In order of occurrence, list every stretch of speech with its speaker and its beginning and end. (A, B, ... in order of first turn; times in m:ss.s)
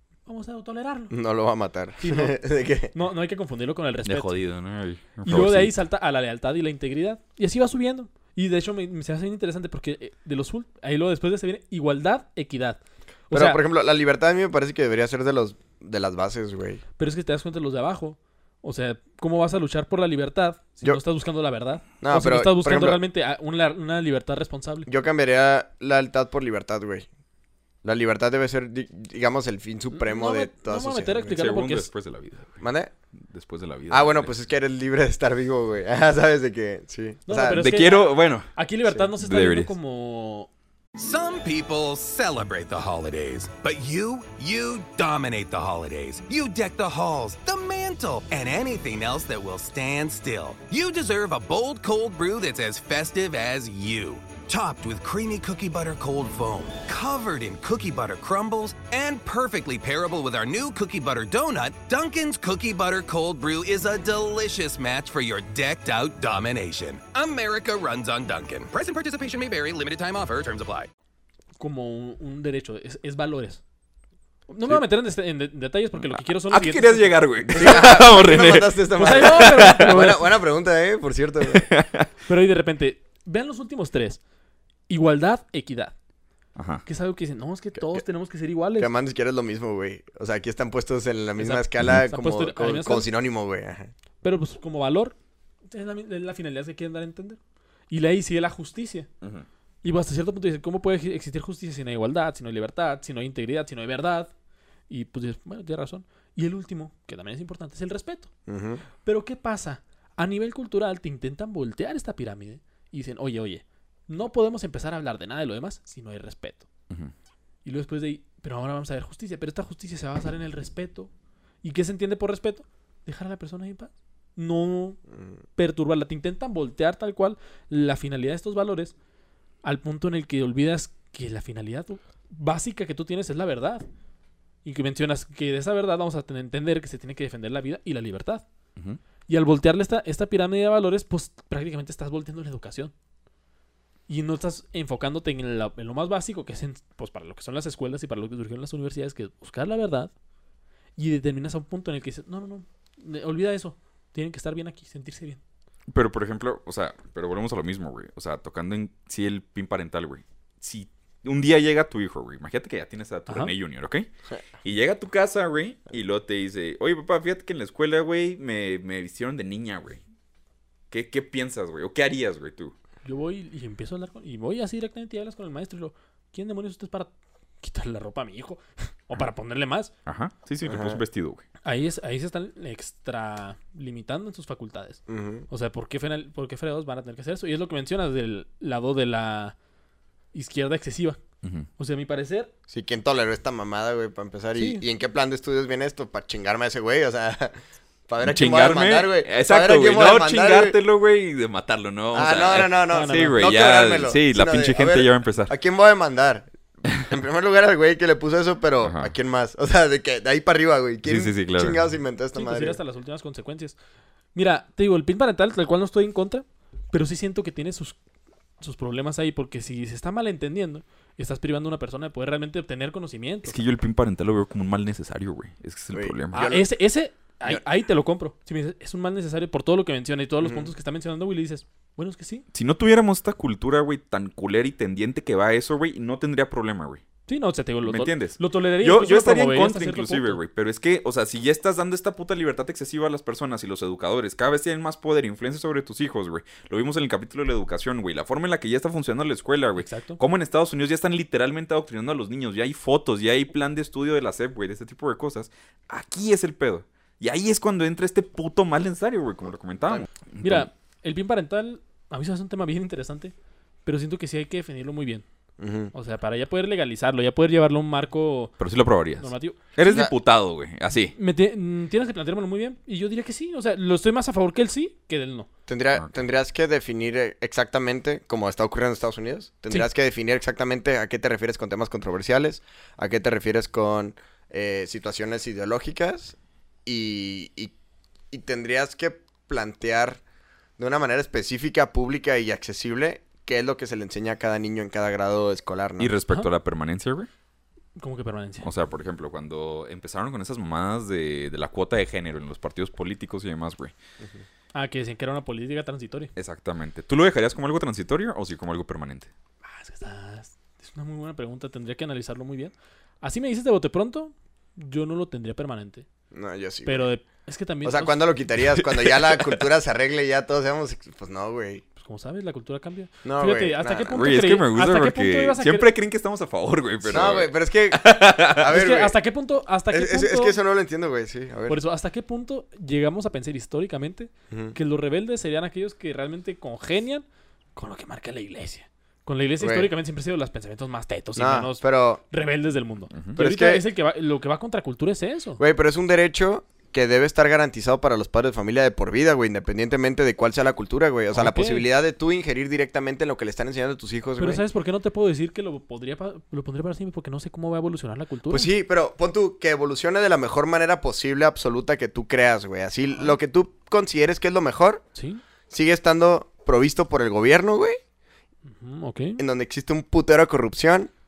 0:00.2-0:01.1 A
0:01.1-0:02.9 B
0:02.0-0:02.4 A
0:02.9-0:04.3 A
0:04.0-0:05.7 C
0:05.2-0:13.6 A
0:13.3-0:16.8 B
0:17.0-0:24.9 A
0:22.0-0:23.0 B
0:24.9-0:27.1 B
0:27.8-0:31.3 B
0:29.9-0:31.9 A
0:31.2-0:32.6 C
0:32.6-0:32.9 B
0:33.2-0:34.3 C
0:33.9-0:37.6 B
0:37.3-0:40.5 A
0:37.5-0:39.7 C
0:41.0-1:10.9 D
1:11.6-1:13.6 A
1:14.5-1:17.2 A
1:16.5-1:20.0 C
1:17.5-1:21.7 B
1:19.0-1:20.2 A
1:21.5-1:22.0 C
1:22.3-1:24.2 A
1:24.9-1:25.9 A
1:26.6-1:26.8 C
1:26.8-1:28.9 A
1:27.7-1:28.0 B
1:28.8-1:33.9 B
1:31.4-1:33.1 A
1:34.2-1:35.1 A
1:35.7-1:37.4 A
1:37.9-1:39.1 A
1:39.8-1:44.3 A
1:44.9-1:48.3 A
1:48.5-1:48.8 B
1:49.0-1:56.6 A
1:57.6-2:01.1 A
2:01.6-2:05.0 A
2:05.1-2:05.4 B
2:05.6-2:08.9 A
2:09.6-2:13.8 A
2:14.6-2:18.4 A
2:19.3-2:22.9 A
2:24.1-2:30.1 A
2:31.0-2:35.4 A
2:35.9-2:44.1 C
2:43.3-2:43.5 A
2:44.6-2:50.0 C
2:50.9-2:52.7 C
2:53.0-2:59.9 A
3:00.0-3:01.4 C
3:00.6-3:01.0 B
3:01.6-3:09.5 A
3:05.1-3:05.4 B
3:10.3-3:11.2 A
3:11.4-3:11.7 C
3:11.8-3:12.5 A
3:12.7-3:20.8 B
3:14.5-3:14.8 A
3:18.2-3:25.5 C
3:22.1-3:26.5 B
3:22.9-3:23.4 A
3:27.0-3:32.8 B
3:28.8-3:29.1 C
3:31.0-3:31.8 C
3:32.4-3:33.8 A
3:34.3-3:38.0 A
3:38.6-3:43.6 A
3:43.4-3:46.5 C
3:45.9-3:46.7 B
3:46.3-3:52.4 A
3:50.4-3:50.7 B
3:52.5-3:57.0 C
3:57.3-4:00.4 A
3:57.8-4:20.7 C
4:09.8-4:10.2 A
4:20.4-4:23.3 A
4:23.8-4:25.2 A
4:25.6-4:25.9 B
4:25.9-4:28.6 A
4:28.6-4:31.1 C
4:29.2-4:29.6 A
4:29.8-4:30.1 B
4:31.1-4:35.5 A
4:35.7-4:47.7 B
4:48.3-4:50.2 B
4:50.8-4:56.1 B
4:56.0-4:57.3 C
4:58.0-4:58.7 A
4:58.6-5:03.9 C
5:04.7-5:06.3 A
5:06.4-5:09.3 C
5:09.6-5:16.0 A
5:16.3-5:17.1 B
5:16.8-5:18.2 A
5:17.8-5:21.8 B
5:19.1-5:19.5 C
5:22.0-5:25.9 A
5:23.2-5:24.3 B
5:24.1-5:28.6 C
5:27.0-5:29.2 B
5:28.6-5:30.6 A
5:29.9-5:31.8 B
5:31.7-5:45.6 A
5:34.5-5:34.7 B
5:39.6-5:39.9 B
5:41.4-5:42.2 B
5:43.4-5:43.8 B
5:45.6-5:54.6 B
5:51.3-5:51.8 A
5:54.4-5:58.7 A
5:58.5-6:05.0 B
6:05.1-6:05.4 A
6:05.7-6:08.0 B
6:08.6-6:09.4 A
6:09.4-6:11.1 B